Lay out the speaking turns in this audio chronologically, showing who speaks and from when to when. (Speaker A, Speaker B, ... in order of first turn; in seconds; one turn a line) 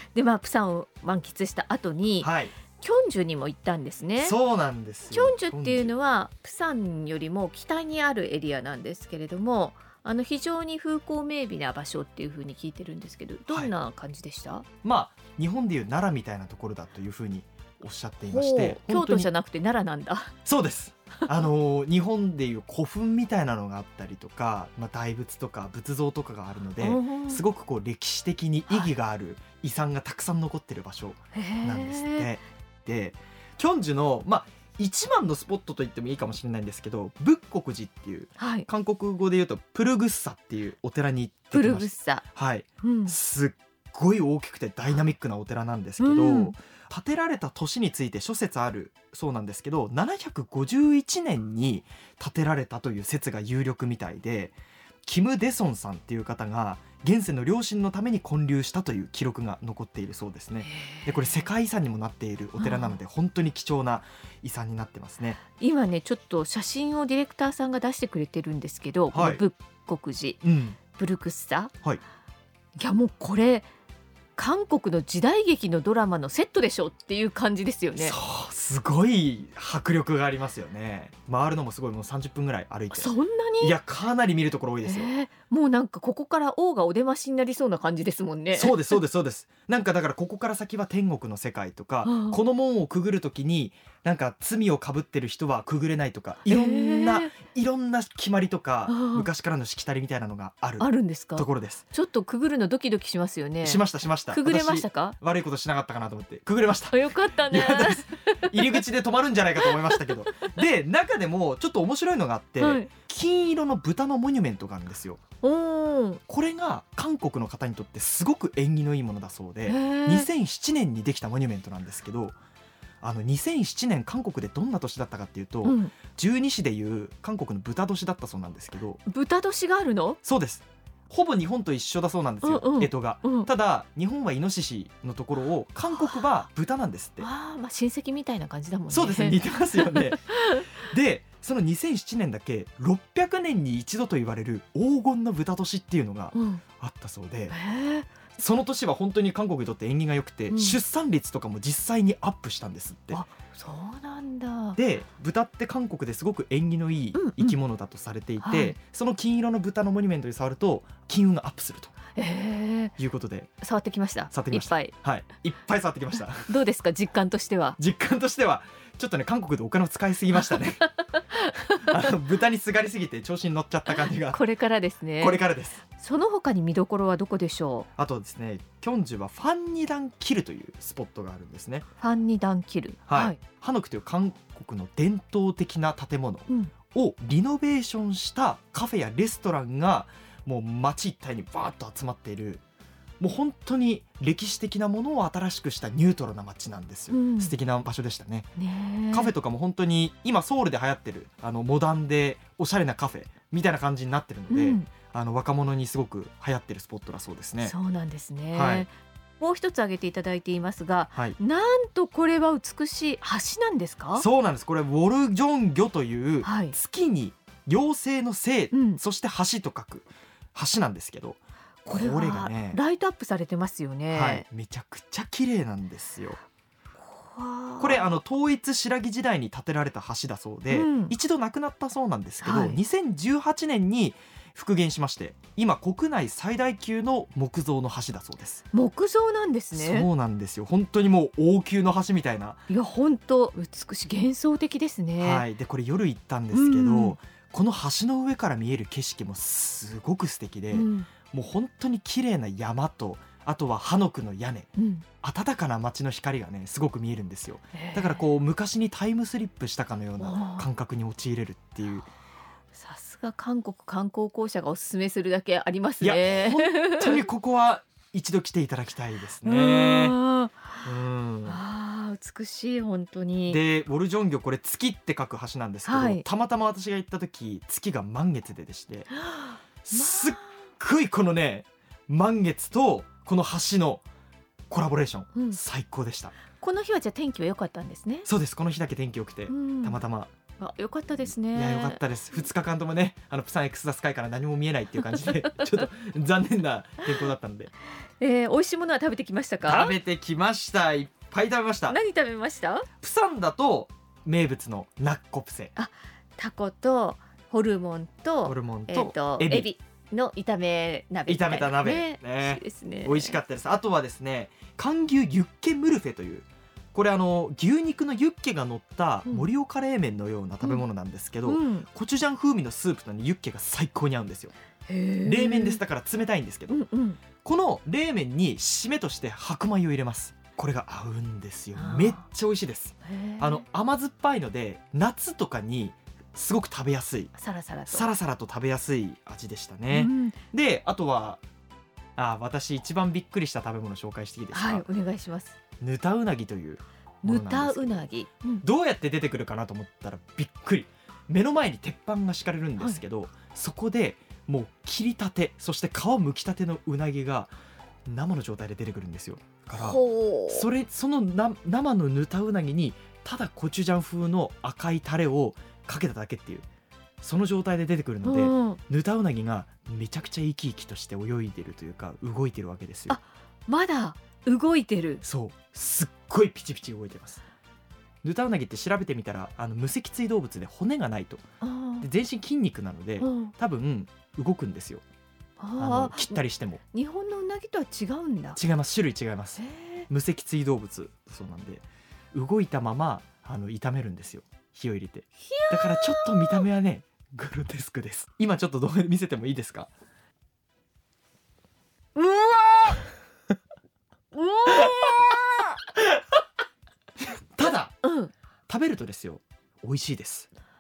Speaker A: 0.1-4.4
Speaker B: 2.2-2.5
Speaker B: 4.2-5.9
Speaker A: 5.1-14.7
Speaker B: 14.8-19.3
Speaker A: 18.3-20.3
Speaker B: 20.4-65.4
Speaker A: 26.8-27.4
Speaker A: 31.3-32.3
Speaker A: 38.4-38.7
Speaker A: 41.5-42.2
Speaker A: 42.8-43.1
Speaker A: 46.0-46.5
Speaker A: 60.6-61.5
Speaker A: 62.6-63.0
Speaker A: 65.6-71.7
Speaker B: 69.1-69.4
Speaker B: 70.4-70.8
Speaker A: 72.8-73.7
Speaker A: 74.4-78.2
Speaker B: 78.0-85.1
Speaker A: 82.9-83.8
Speaker A: 84.8-89.0
Speaker B: 88.5-101.9
Speaker A: 92.0-92.4
Speaker A: 96.5-97.3
Speaker A: 98.9-99.3
Speaker A: 100.8-105.2
Speaker B: 103.6-115.2
Speaker A: 106.9-108.8
Speaker A: 109.6-110.5
Speaker A: 112.6-112.9
Speaker A: 115.4-116.2
Speaker B: 116.3-122.4
Speaker A: 119.7-120.3
Speaker B: 123.0-129.0
Speaker A: 125.6-125.9
Speaker A: 129.1-130.2
Speaker B: 130.2-137.3
Speaker A: 132.4-133.5
Speaker A: 135.9-136.2
Speaker A: 137.2-140.8
Speaker B: 138.9-147.6
Speaker A: 146.3-146.6
Speaker A: 147.5-148.2
Speaker B: 148.4-153.2
Speaker A: 150.5-150.8
Speaker A: 153.1-154.8
Speaker B: 154.8-161.9
Speaker A: 157.1-157.6
Speaker A: 158.4-158.8
Speaker A: 162.2-162.9
Speaker B: 163.0-163.5
Speaker A: 163.6-164.9
Speaker B: 164.3-166.5
Speaker A: 166.4-167.8
Speaker B: 167.8-170.9
Speaker A: 170.4-172.1
Speaker B: 171.8-174.4
Speaker A: 173.9-177.9
Speaker B: 175.2-175.8
Speaker B: 178.0-181.8
Speaker A: 182.0-183.4
Speaker B: 183.1-192.6
Speaker B: 193.2-198.5
Speaker A: 197.1-197.6
Speaker A: 198.6-199.3
Speaker B: 199.1-207.8
Speaker A: 204.5-204.9
Speaker A: 207.6-214.3
Speaker B: 208.5-208.9
Speaker B: 211.1-211.4
Speaker B: 214.2-222.8
Speaker A: 216.4-216.8
Speaker A: 218.7-219.0
Speaker A: 221.9-224.4
Speaker B: 224.1-226.4
Speaker A: 227.0-228.1
Speaker B: 227.8-238.6
Speaker A: 230.7-231.2
Speaker A: 232.4-232.8
Speaker A: 238.7-240.1
Speaker B: 239.7-242.7
Speaker A: 242.7-245.5
Speaker B: 245.2-254.7
Speaker A: 246.5-247.2
Speaker A: 250.7-251.1
Speaker A: 254.8-255.1
Speaker B: 255.2-262.1
Speaker A: 257.7-258.2
Speaker A: 260.2-260.7
Speaker A: 262.7-267.2
Speaker B: 266.0-270.2
Speaker A: 269.4-270.9
Speaker B: 270.8-271.6
Speaker A: 271.4-273.6
Speaker B: 273.5-279.1
Speaker A: 275.9-276.2
Speaker A: 279.1-280.5
Speaker B: 279.8-284.1
Speaker B: 284.7-286.4
Speaker A: 286.6-288.3
Speaker B: 288.3-290.3
Speaker A: 289.5-290.0
Speaker A: 290.6-292.0
Speaker B: 291.3-297.7
Speaker A: 298.2-300.0
Speaker B: 299.6-302.0
Speaker A: 301.9-302.9
Speaker B: 303.0-305.7
Speaker A: 305.8-313.4
Speaker B: 308.4-309.7
Speaker B: 311.3-324.5
Speaker A: 321.4-321.9
Speaker A: 324.9-325.8
Speaker B: 325.2-326.8
Speaker A: 326.7-327.2
Speaker B: 327.4-337.3
Speaker A: 331.8-332.2
Speaker A: 333.1-333.6
Speaker A: 337.4-338.1
Speaker B: 337.9-341.4
Speaker A: 339.9-340.4
Speaker B: 342.2-344.9
Speaker A: 344.5-345.6
Speaker B: 345.8-348.1
Speaker A: 347.2-348.6
Speaker B: 348.6-357.5
Speaker B: 358.1-366.7
Speaker A: 359.8-360.7
Speaker B: 367.2-373.2
Speaker A: 368.2-368.8
Speaker A: 373.1-375.2
Speaker B: 375.2-377.4
Speaker B: 378.2-381.4
Speaker A: 381.6-382.1
Speaker B: 382.0-385.0
Speaker A: 383.2-383.5
Speaker A: 385.6-386.4
Speaker B: 385.8-386.8
Speaker A: 386.9-388.6
Speaker B: 388.6-399.9
Speaker A: 389.6-390.1
Speaker A: 395.4-396.7
Speaker A: 402.1-403.0
Speaker A: 404.3-405.7
Speaker B: 407.6-407.9
Speaker A: 408.0-408.3
Speaker B: 408.7-410.5